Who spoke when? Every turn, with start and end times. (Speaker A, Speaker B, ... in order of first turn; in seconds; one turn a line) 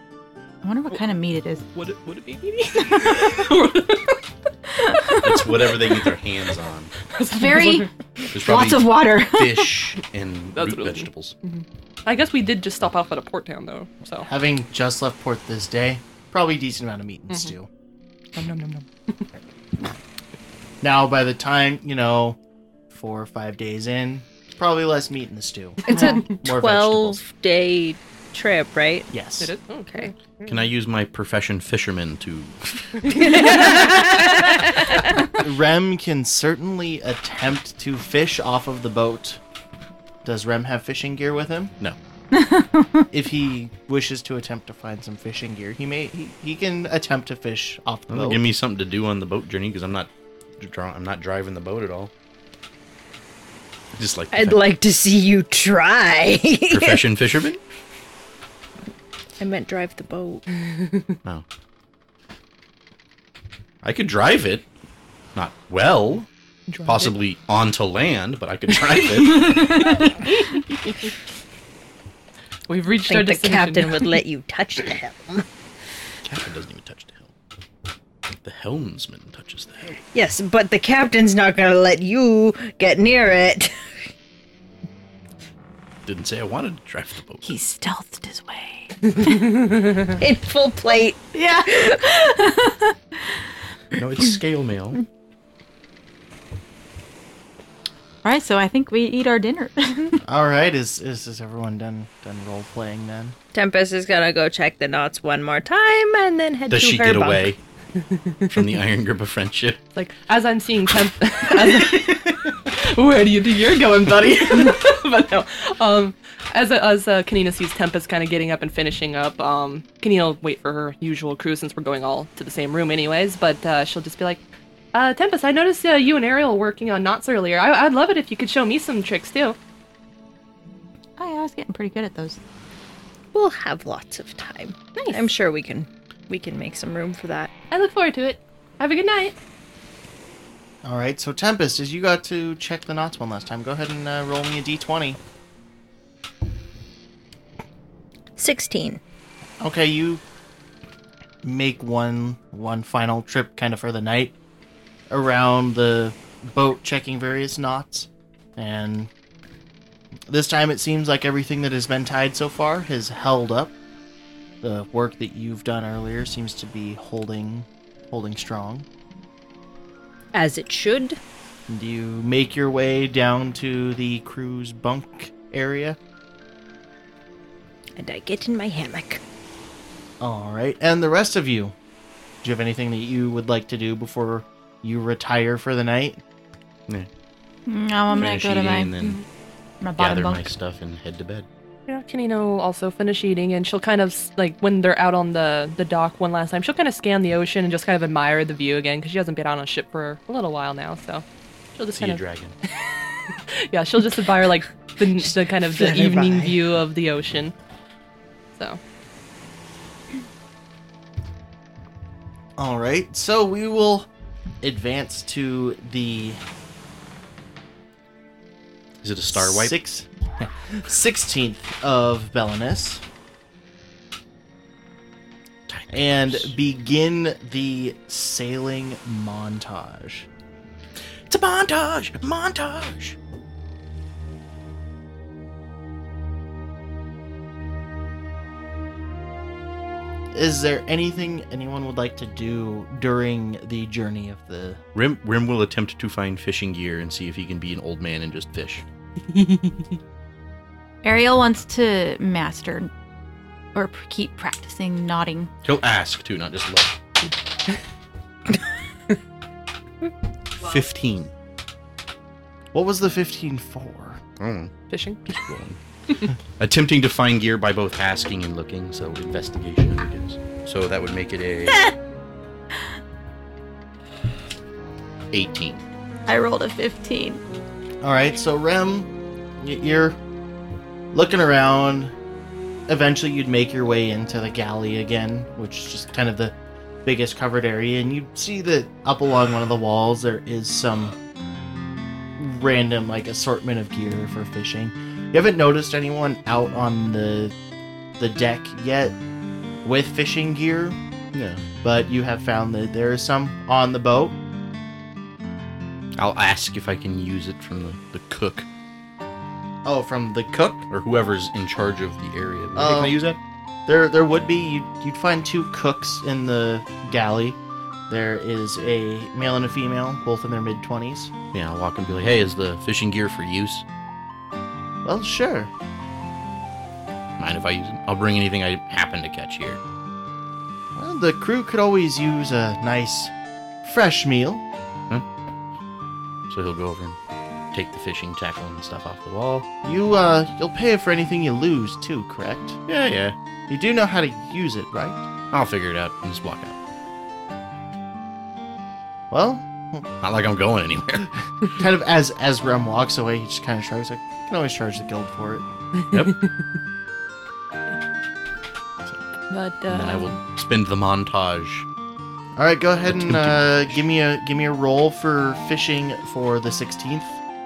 Speaker A: 0.6-1.6
Speaker B: 1.8-4.2
Speaker A: 4.8-5.3
Speaker C: 5.2-6.9
Speaker B: 7.1-7.9
Speaker A: 7.3-9.7
Speaker C: 8.3-11.3
Speaker B: 10.6-14.3
Speaker D: 14.3-17.7
Speaker B: 18.4-19.2
Speaker D: 20.8-22.4
Speaker D: 22.9-27.2
Speaker E: 25.9-29.1
Speaker B: 25.9-26.2
Speaker D: 29.1-29.5
Speaker B: 29.4-30.5
Speaker C: 30.5-33.0
Speaker B: 33.1-34.1
Speaker E: 33.2-34.6
Speaker D: 35.4-39.4
Speaker D: 40.2-41.7
Speaker A: 42.3-43.1
Speaker D: 43.1-48.4
Speaker C: 48.1-52.1
Speaker C: 53.9-54.6
Speaker E: 54.3-57.1
Speaker C: 56.7-57.6
Speaker E: 59.4-60.4
Speaker C: 63.8-64.7
Speaker C: 65.3-66.3
Speaker B: 66.7-67.1
Speaker C: 66.8-70.1
Speaker B: 70.0-70.5
Speaker B: 72.7-74.2
Speaker E: 73.1-75.5
Speaker C: 76.2-77.3
Speaker C: 78.4-80.0
Speaker E: 80.1-83.7
Speaker C: 86.1-87.5
Speaker A: 87.4-88.9
Speaker B: 89.2-89.7
Speaker E: 90.1-92.0
Speaker A: 91.3-93.0
Speaker C: 94.0-95.0
Speaker A: 98.2-100.2
Speaker D: 100.2-103.4
Speaker E: 103.5-107.5
Speaker C: 106.7-107.6
Speaker B: 108.1-108.6
Speaker C: 108.5-109.8
Speaker B: 110.0-124.4
Speaker B: 124.9-129.6
Speaker A: 131.2-132.4
Speaker E: 133.3-137.5
Speaker B: 135.0-135.3
Speaker B: 137.7-139.3
Speaker D: 140.8-145.2
Speaker E: 148.4-149.0
Speaker D: 149.6-150.2
Speaker D: 151.4-154.3
Speaker D: 155.1-159.1
Speaker D: 160.3-163.7
Speaker D: 164.6-168.9
Speaker E: 170.3-171.2
Speaker D: 171.7-176.0
Speaker E: 178.0-179.2
Speaker D: 180.2-181.8
Speaker D: 182.4-186.2
Speaker A: 187.7-189.2
Speaker C: 188.1-189.2
Speaker A: 189.8-190.5
Speaker C: 190.0-191.5
Speaker B: 191.9-201.2
Speaker B: 201.8-202.2
Speaker C: 201.9-202.5
Speaker B: 202.9-207.5
Speaker E: 205.2-206.6
Speaker B: 208.6-208.8
Speaker D: 212.6-214.1
Speaker D: 214.6-216.4
Speaker C: 219.0-219.8
Speaker D: 219.3-223.0
Speaker C: 225.7-226.5
Speaker D: 225.9-230.3
Speaker C: 231.3-233.2
Speaker D: 240.3-244.8
Speaker C: 244.9-248.8
Speaker A: 251.0-252.9
Speaker A: 253.7-255.5
Speaker C: 255.6-257.0
Speaker C: 260.6-261.3
Speaker D: 262.7-264.2
Speaker C: 264.4-264.7
Speaker B: 264.9-265.3
Speaker C: 265.3-265.8
Speaker C: 266.6-271.9
Speaker C: 275.3-275.8
Speaker A: 276.3-277.4
Speaker D: 278.0-280.2
Speaker D: 281.1-282.1
Speaker D: 282.9-291.1
Speaker D: 292.4-297.5
Speaker D: 298.2-299.2
Speaker D: 299.8-301.0
Speaker C: 301.3-301.6
Speaker D: 301.8-304.4
Speaker C: 306.2-308.7
Speaker D: 309.9-310.9
Speaker C: 310.9-313.4
Speaker D: 312.8-313.2
Speaker D: 313.9-321.3
Speaker C: 321.5-323.8
Speaker D: 325.1-325.7
Speaker C: 327.4-329.8
Speaker D: 331.0-333.3
Speaker D: 333.8-334.6
Speaker C: 336.5-337.2
Speaker C: 337.7-339.7
Speaker D: 339.8-342.9
Speaker C: 342.9-343.4
Speaker D: 343.7-345.3
Speaker C: 345.5-346.8
Speaker D: 349.3-350.1
Speaker C: 350.2-351.3
Speaker D: 351.8-355.7
Speaker B: 356.1-356.5
Speaker B: 359.5-360.4
Speaker C: 359.9-361.9
Speaker D: 362.6-367.4
Speaker C: 363.1-364.0